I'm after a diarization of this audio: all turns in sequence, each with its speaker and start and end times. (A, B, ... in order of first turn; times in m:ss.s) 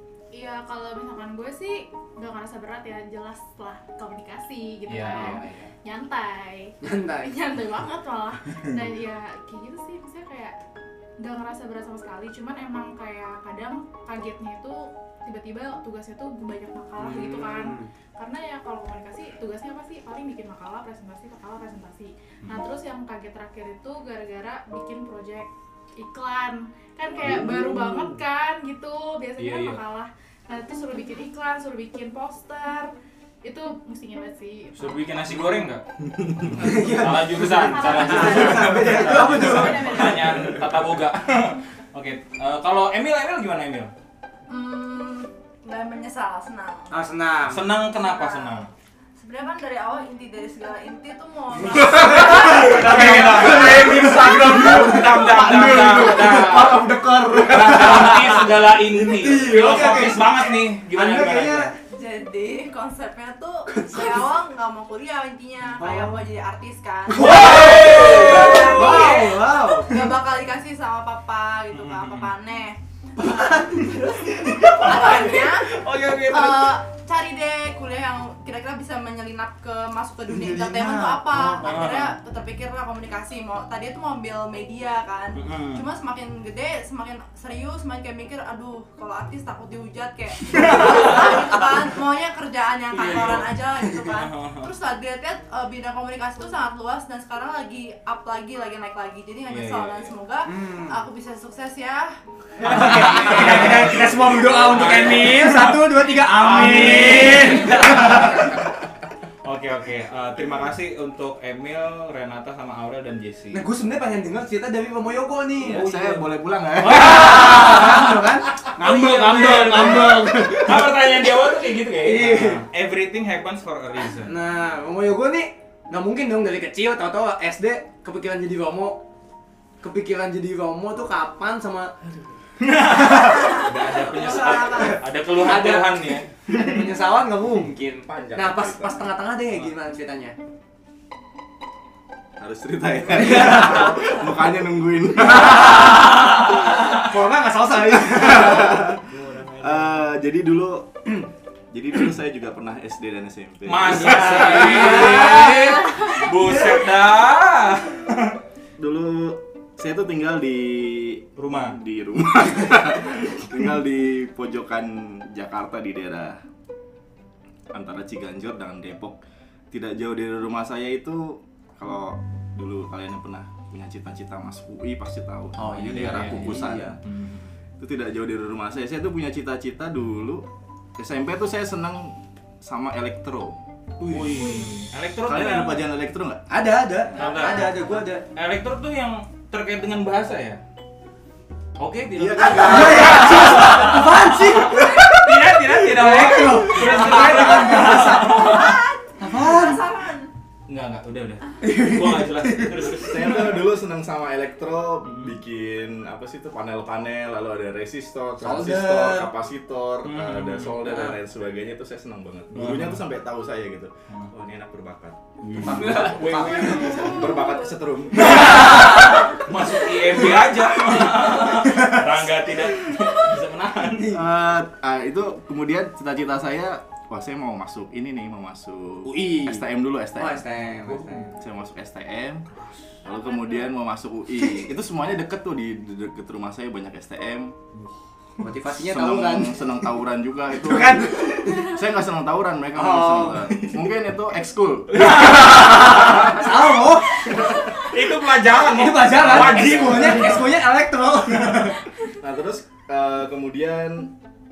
0:00.3-0:10.6 A
0:04.9-0:05.4 B
0:05.1-0:05.7 C
0:06.8-0:07.4 C
0:11.2-0:32.9 A
0:17.0-0:17.9 C
0:27.3-0:27.9 C
0:29.4-0:29.8 B
0:33.4-0:35.6 A
0:34.8-0:43.9 B
0:36.2-0:36.8 D
0:36.6-0:40.6 C
0:37.0-0:40.6 A
0:44.5-0:46.9 E
0:46.9-0:47.7 C
0:47.5-0:48.7 B
0:47.9-0:48.7 E
0:49.2-0:53.4 E
0:51.7-0:55.0 C
0:52.0-0:58.6 D
0:52.1-0:56.9 B
0:55.6-0:56.2 C
0:57.4-1:01.7 B
0:58.9-1:01.8 C
1:01.9-1:42.2 E
1:03.7-1:04.3 C
1:05.8-1:06.2 C
1:07.1-1:10.0 C
1:07.2-1:09.2 B
1:11.7-1:12.3 B
1:13.2-1:14.3 C
1:14.9-1:16.8 B
1:20.3-1:21.9 C
1:21.6-1:22.2 B
1:25.4-1:25.8 B
1:30.5-1:31.5 B
1:33.0-1:33.4 C
1:33.0-1:33.5 B
1:34.1-1:34.7 B
1:39.5-1:40.1 B
1:40.5-1:41.0 C
1:42.6-1:48.6 C
1:42.6-1:48.7 B
1:49.4-1:53.6 B
1:53.5-1:55.8 C
1:55.6-1:57.7 D
1:55.6-2:04.3 B
1:56.9-2:01.0 C
2:02.0-2:02.6 C
2:04.2-2:09.0 C
2:09.8-2:12.0 C
2:12.6-2:16.3 B
2:12.9-2:13.4 C
2:13.3-2:15.0 E
2:14.2-2:20.4 C
2:18.0-2:19.1 D
2:22.4-2:26.3 D
2:23.1-2:24.2 C
2:25.4-2:29.9 C
2:28.0-2:29.1 D
2:29.6-2:35.4 D
2:33.7-2:38.4 B
2:34.0-2:36.7 C
2:38.8-2:46.4 D
2:41.4-2:41.8 B
2:47.7-2:49.2 D
2:49.7-2:57.0 D
2:55.6-2:57.0 C
2:55.9-2:57.5 B
2:57.8-3:03.6 D
3:04.0-3:04.6 C
3:04.0-3:05.9 B
3:05.2-3:06.5 D
3:06.5-3:08.3 C
3:07.1-3:10.6 B
3:11.8-3:18.8 B
3:12.2-3:13.8 D
3:12.4-3:19.9 C
3:17.8-3:20.3 E
3:20.7-3:23.6 B
3:21.6-3:23.0 C
3:23.0-3:39.1 D
3:25.0-3:25.4 B
3:28.4-3:29.3 C
3:30.0-3:30.9 B
3:32.5-3:33.0 B
3:35.4-3:37.4 B
3:35.6-3:37.2 C
3:38.2-3:44.2 B
3:41.7-3:42.0 C
3:44.0-3:44.2 C
3:44.1-3:50.5 D
3:49.0-3:49.7 C
3:50.2-3:51.3 C
3:50.8-3:51.3 B
3:51.3-3:52.5 D
3:52.6-3:53.0 B
3:53.0-3:57.6 D
3:58.4-3:59.7 C
3:58.6-4:06.3 D
4:00.5-4:01.8 C
4:02.8-4:03.7 C
4:05.0-4:07.7 C
4:05.0-4:05.9 B
4:07.5-4:10.6 B
4:08.6-4:11.8 C
4:09.6-4:10.6 D
4:12.1-4:14.1 D